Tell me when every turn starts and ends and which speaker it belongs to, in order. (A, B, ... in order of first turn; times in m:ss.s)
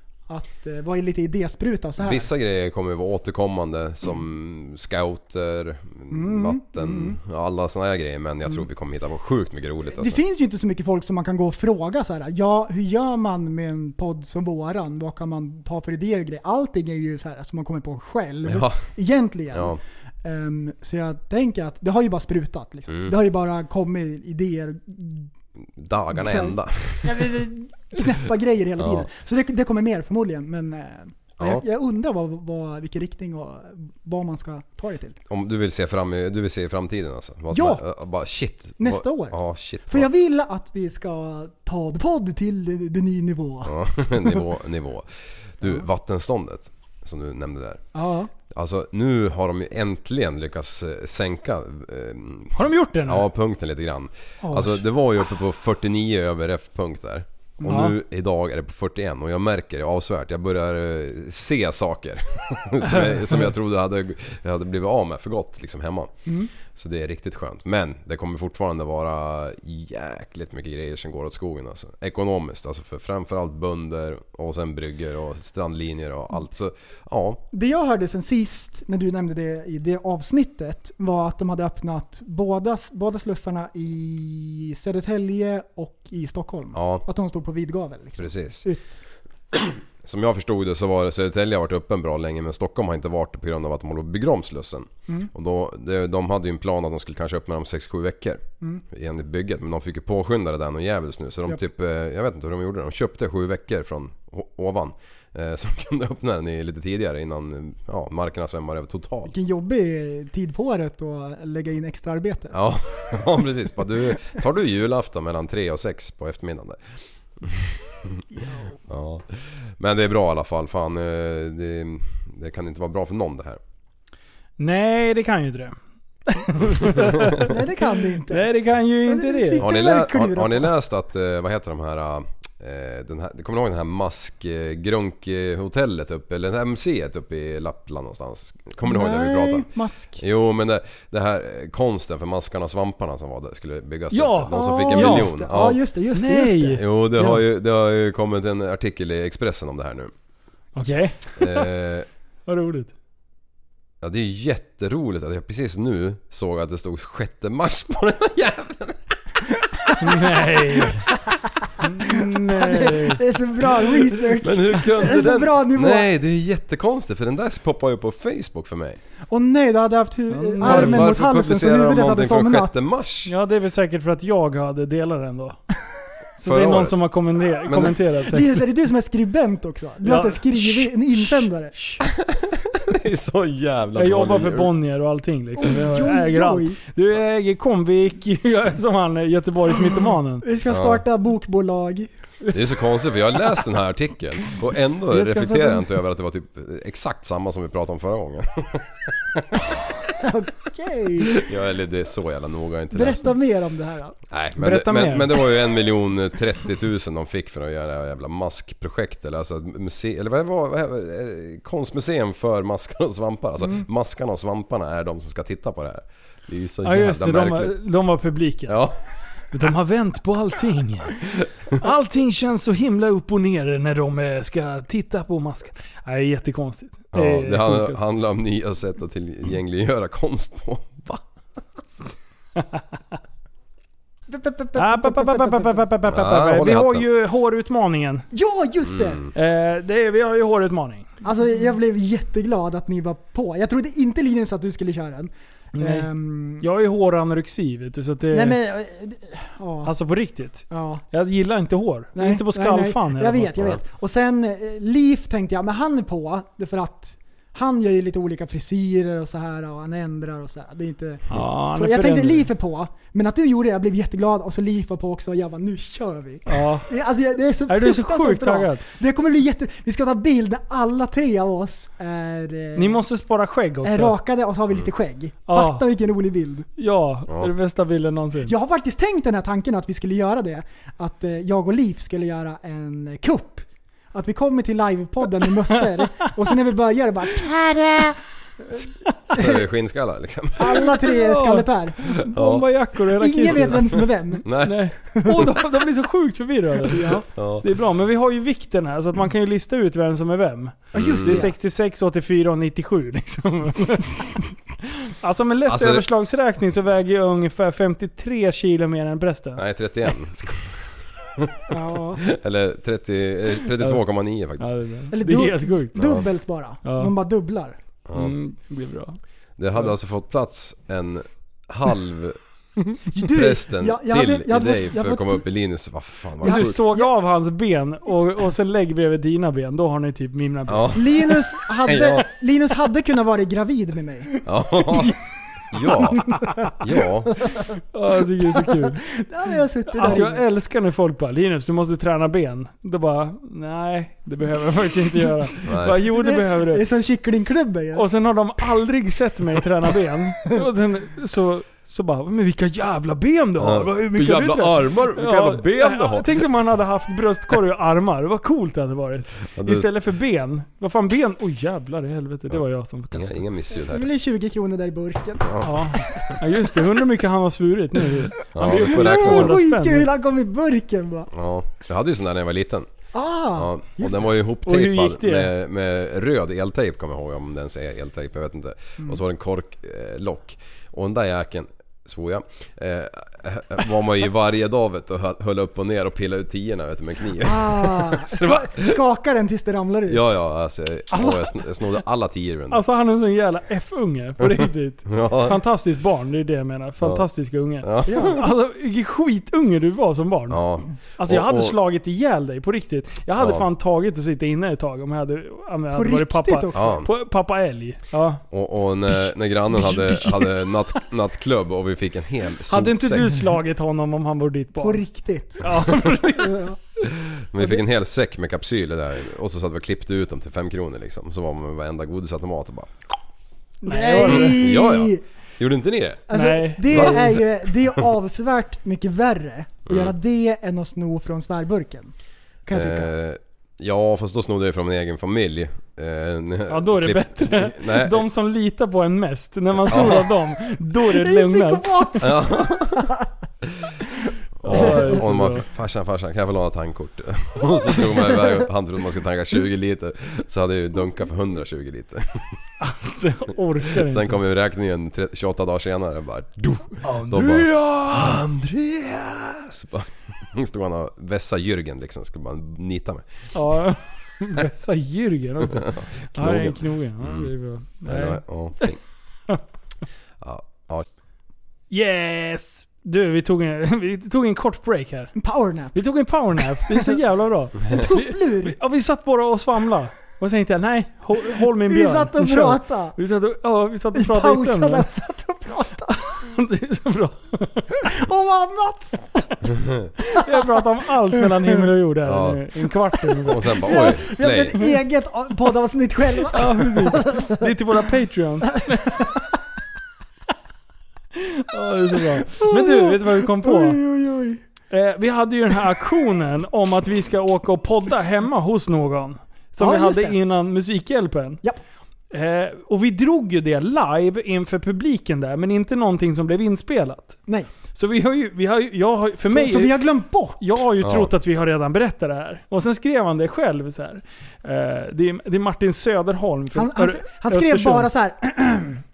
0:00.3-0:02.3 A
0:02.0-0:10.2 B
0:06.1-0:07.2 A
0:09.9-0:25.3 A
0:18.4-0:18.9 B
0:19.5-0:19.8 B
0:22.9-0:23.2 B
0:25.8-0:27.4 B
0:26.1-0:35.2 A
0:28.8-0:29.1 B
0:35.3-0:40.1 B
0:37.5-0:37.8 A
0:38.8-0:44.4 A
0:43.6-0:47.8 B
0:47.9-0:48.3 A
0:48.5-1:17.4 B
0:52.5-0:53.3 C
0:54.4-0:54.8 C
0:57.6-0:57.9 A
0:57.7-0:57.9 C
1:02.8-1:03.4 C
1:17.5-1:29.0 A
1:26.7-1:27.0 B
1:28.2-1:28.6 B
1:29.5-1:49.3 B
1:49.3-1:52.6 A
1:52.5-1:56.8 B
1:57.4-1:58.2 B
1:58.3-1:58.8 A
1:58.9-2:03.6 B
2:04.6-2:05.7 C
2:06.3-2:07.5 C
2:07.4-2:08.5 A
2:08.3-2:09.6 C
2:09.0-2:10.7 A
2:09.6-2:19.7 B
2:18.8-2:20.2 A
2:20.2-2:25.8 B
2:24.1-2:25.3 C
2:24.5-2:26.8 A
2:26.1-2:27.4 C
2:26.8-2:30.1 B
2:30.8-2:31.7 C
2:31.4-2:32.1 B
2:32.5-2:32.9 C
2:34.0-2:39.0 B
2:40.0-2:41.1 C
2:41.8-2:43.2 C
2:42.5-2:46.1 A
2:44.4-2:49.0 B
2:49.3-2:52.7 A
2:50.3-2:51.2 C
2:50.6-2:53.3 B
2:53.2-2:55.6 C
2:56.4-2:58.5 C
2:56.4-2:57.0 B
2:57.6-2:57.9 B
2:58.3-3:01.7 A
3:00.0-3:00.9 C
3:01.7-3:02.0 C
3:02.2-3:04.7 B
3:03.9-3:10.4 C
3:05.6-3:06.8 A
3:09.9-3:12.1 A
3:10.7-3:11.0 B
3:12.5-3:20.0 B
3:15.1-3:15.8 A
3:20.2-3:21.4 A
3:21.2-3:23.3 B
3:22.9-3:24.2 A
3:24.3-3:37.8 B
3:24.6-3:25.3 C
3:36.8-3:38.8 C
3:38.7-3:39.0 B
3:39.5-3:41.2 C
3:41.7-3:48.0 C
3:47.1-3:51.2 B
3:54.3-3:55.8 A
3:54.8-3:58.3 C
3:56.0-3:57.0 B
3:58.3-3:59.2 A
3:58.8-3:59.3 B
3:59.3-4:01.1 C
4:01.2-4:06.6 A
4:05.7-4:06.1 C
4:06.6-4:08.6 C
4:08.3-4:09.9 A
4:09.8-4:13.5 C
4:10.7-4:11.0 A
4:12.1-4:33.0 A
4:21.3-4:22.5 C
4:26.5-4:26.9 C
4:27.7-4:28.8 C
4:32.8-4:34.2 C
4:33.8-4:36.7 A
4:35.5-4:35.8 C
4:36.8-4:38.5 C
4:38.4-4:49.6 A
4:49.3-4:50.8 B
4:50.6-4:52.2 A
4:50.7-5:04.4 C
4:52.3-4:52.6 B
4:53.2-4:54.5 A
4:54.4-4:54.9 B
4:56.9-4:57.2 A
4:57.3-4:57.7 B
5:00.9-5:01.5 B
5:00.9-5:01.5 A
5:05.1-5:09.6 C
5:05.6-5:06.0 B
5:09.6-5:11.6 B
5:11.7-5:12.2 A
5:12.2-5:14.7 B
5:14.6-5:16.0 C
5:15.1-5:17.8 A
5:15.9-5:16.2 B
5:16.8-5:17.1 C
5:18.1-5:18.4 B
5:18.1-5:19.2 C
5:19.6-5:22.4 B
5:23.1-5:25.4 A
5:23.2-5:26.8 B
5:26.4-5:27.1 A
5:26.4-5:30.9 C
5:30.7-5:32.3 B
5:30.9-5:34.4 A
5:34.4-5:35.2 B
5:35.7-5:37.4 B
5:37.9-5:39.0 C
5:38.7-5:40.4 A
5:39.9-5:46.8 C
5:45.6-5:46.0 B
5:46.0-5:48.1 A
5:48.0-6:03.4 C
5:53.6-5:56.4 B
5:59.5-5:59.9 B
6:03.1-6:04.1 B
6:03.8-6:05.6 A
6:05.4-6:06.0 B
6:05.6-6:10.1 C
6:08.5-6:09.6 B
6:08.6-6:11.3 A
6:11.3-6:12.9 B
6:13.1-6:14.2 A
6:13.5-6:29.0 B
6:14.6-6:15.5 C
6:27.4-6:30.2 A
6:30.1-6:32.8 B
6:31.1-6:31.4 C
6:32.7-6:40.6 C
6:34.5-6:35.6 B
6:37.0-6:37.3 B
6:37.8-6:38.5 B
6:38.1-6:38.4 A
6:40.5-6:41.8 B
6:41.2-6:48.4 C
6:43.4-6:43.7 B
6:45.9-6:47.0 A
6:46.7-6:47.1 B
6:48.5-6:53.5 B
6:49.7-6:50.5 C
6:52.7-6:55.0 C
6:54.8-6:56.8 A
6:55.6-6:56.5 C
6:57.2-7:02.9 B
7:03.8-7:04.6 C
7:03.8-7:05.2 A
7:04.2-7:06.3 B
7:06.3-7:12.1 A
7:06.3-7:07.2 C
7:06.8-7:07.4 B
7:09.9-7:10.1 B
7:12.6-7:13.1 A
7:12.7-7:18.2 B
7:16.7-7:22.2 C
7:19.8-7:20.3 B
7:21.0-7:23.2 A
7:22.2-7:23.1 B
7:24.6-7:32.4 B
7:24.6-7:25.7 C
7:24.7-7:25.2 A
7:32.8-7:34.4 C
7:33.8-7:43.2 B
7:37.0-7:38.4 C
7:43.5-7:48.9 C
7:45.6-7:47.5 B
7:48.0-7:49.0 B
7:50.4-7:51.1 B
7:51.9-7:55.3 C
7:55.4-7:56.0 A
7:55.9-8:05.0 C
7:56.7-7:57.2 A
7:57.8-7:58.8 A
8:01.8-8:03.2 A
8:04.1-8:06.3 A
8:06.4-8:08.0 C
8:08.0-8:09.7 A
8:10.3-8:14.1 C
8:10.3-8:10.7 A
8:12.2-8:12.6 B
8:13.4-8:14.8 B
8:13.8-8:17.7 A
8:16.5-8:19.2 C
8:18.9-8:19.4 A
8:21.4-8:24.0 C
8:22.3-8:24.6 A
8:24.9-8:31.6 C
8:29.8-8:30.4 A
8:32.3-8:37.4 C
8:37.9-8:40.0 C
8:39.4-8:40.8 A
8:40.6-8:48.1 C
8:41.0-8:41.3 B
8:46.7-8:49.0 A